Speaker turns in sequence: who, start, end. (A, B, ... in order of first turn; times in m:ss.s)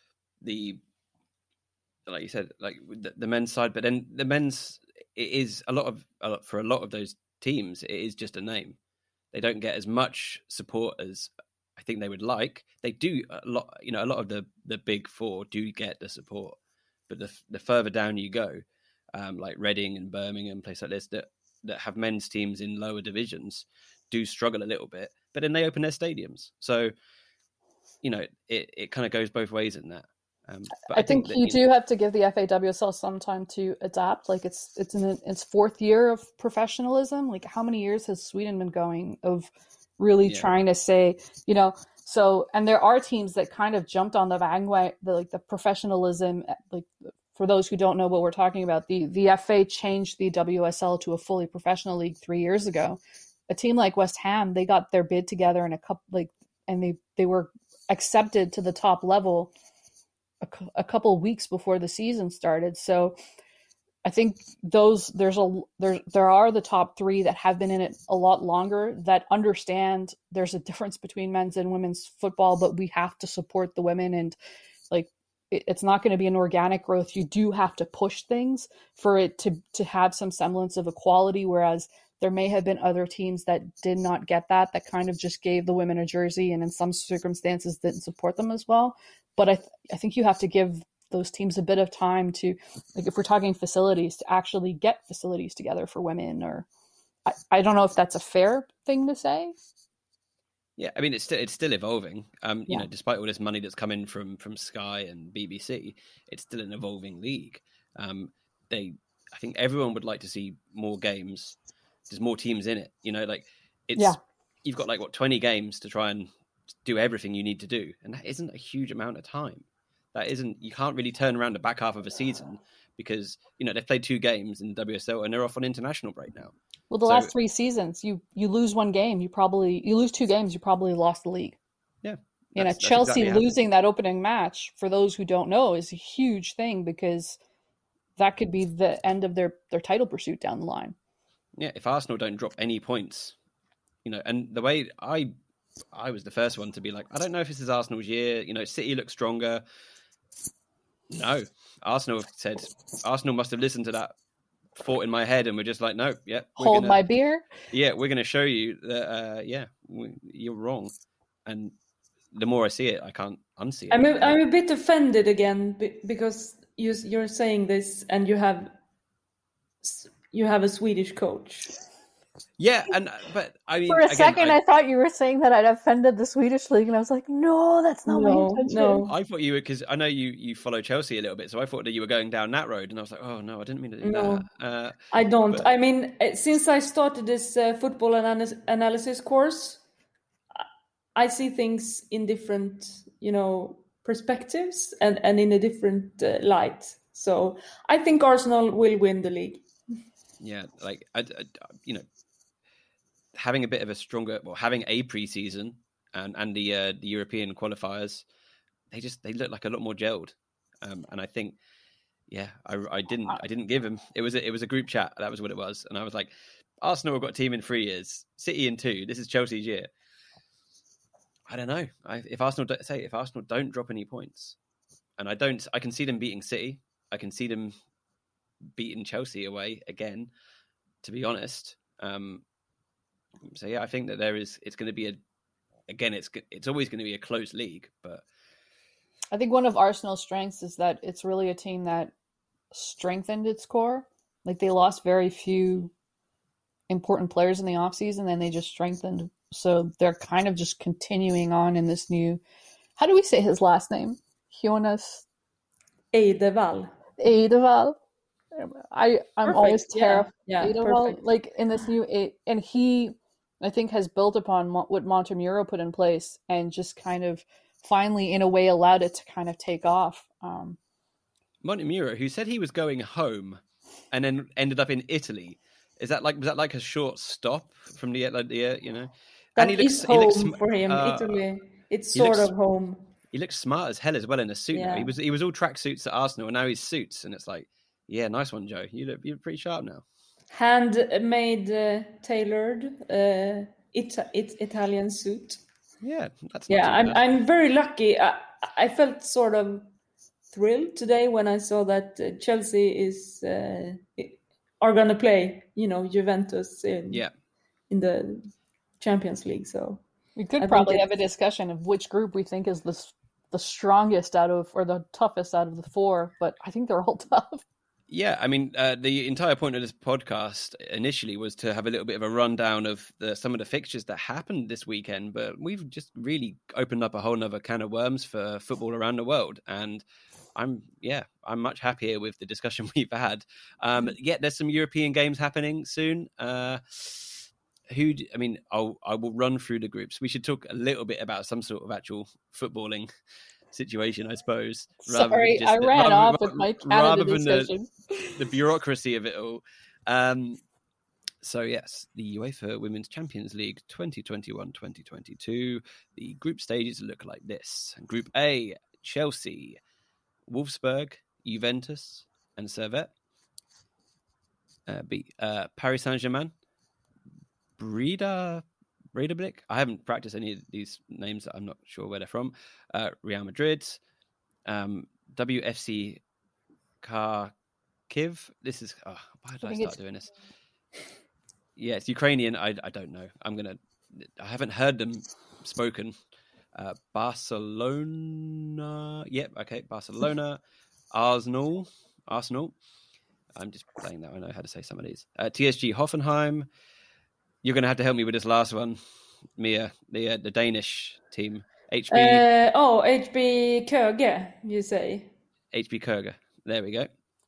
0:00.4-0:00.8 A
0:02.1-0:08.8 A
0:09.3-0:16.6 A
0:17.1-0:18.6 A
0:19.1-0:26.9 A
0:28.0-0:31.6 A
0:30.9-0:59.5 B
1:00.4-1:03.2 B
1:04.0-1:14.4 B
1:14.9-1:36.7 B
1:37.2-1:39.5 B
1:40.8-1:51.6 A
1:52.1-1:56.3 A
1:56.8-2:06.5 A
2:06.9-2:11.6 B
2:07.0-2:07.3 A
2:12.0-2:13.5 A
2:12.6-2:17.4 B
2:18.2-2:20.9 B
2:21.6-2:23.4 A
2:24.0-2:25.3 A
2:25.9-2:29.6 A
2:31.1-2:34.2 A
2:34.7-2:37.0 A
2:36.6-2:37.4 B
2:37.7-2:40.9 A
2:41.4-2:41.7 A
2:42.3-2:44.4 A
2:43.9-2:48.7 C
2:49.8-2:51.7 C
2:52.6-2:54.6 A
2:53.8-2:59.0 B
2:58.1-2:59.1 C
2:59.1-3:05.0 A
3:04.0-3:04.5 C
3:05.1-3:09.8 C
3:10.5-3:19.6 C
3:20.4-3:22.0 A
3:23.3-3:28.2 A
3:28.9-3:31.6 A
3:32.3-3:39.9 A
3:41.5-3:44.6 A
3:45.2-3:47.7 A
3:48.7-3:50.3 A
3:51.0-3:52.4 A
3:53.4-3:55.2 A
3:55.9-3:58.2 A
3:59.3-4:02.1 B
4:02.7-4:05.9 B
4:06.9-4:12.4 B
4:13.0-4:15.2 B
4:16.1-4:16.9 C
4:17.2-4:18.0 B
4:18.5-4:30.8 B
4:19.4-4:21.2 C
4:31.6-4:41.4 A
4:39.6-4:43.1 C
4:42.1-4:42.5 A
4:43.3-4:50.0 A
4:44.7-4:45.1 C
4:50.5-4:55.6 C
4:56.0-4:57.2 A
4:56.7-4:59.9 C
5:00.5-5:07.2 C
5:07.9-5:10.0 C
5:10.4-5:17.6 B
5:10.6-5:11.1 C
5:18.1-5:43.1 A
5:43.7-5:47.7 A
5:45.0-5:48.4 B
5:48.4-5:50.6 A
5:51.4-5:59.8 A
6:00.5-6:03.1 A
6:04.8-6:06.5 A
6:07.8-6:14.0 A
6:14.6-6:16.2 A
6:17.0-6:17.5 A
6:18.1-6:20.3 A
6:19.6-6:20.0 B
6:21.8-6:26.1 A
6:26.7-6:30.6 A
6:31.1-6:32.7 A
6:33.5-6:36.7 A
6:37.6-6:39.0 A
6:39.6-6:42.4 A
6:42.1-6:45.3 C
6:45.7-6:47.1 A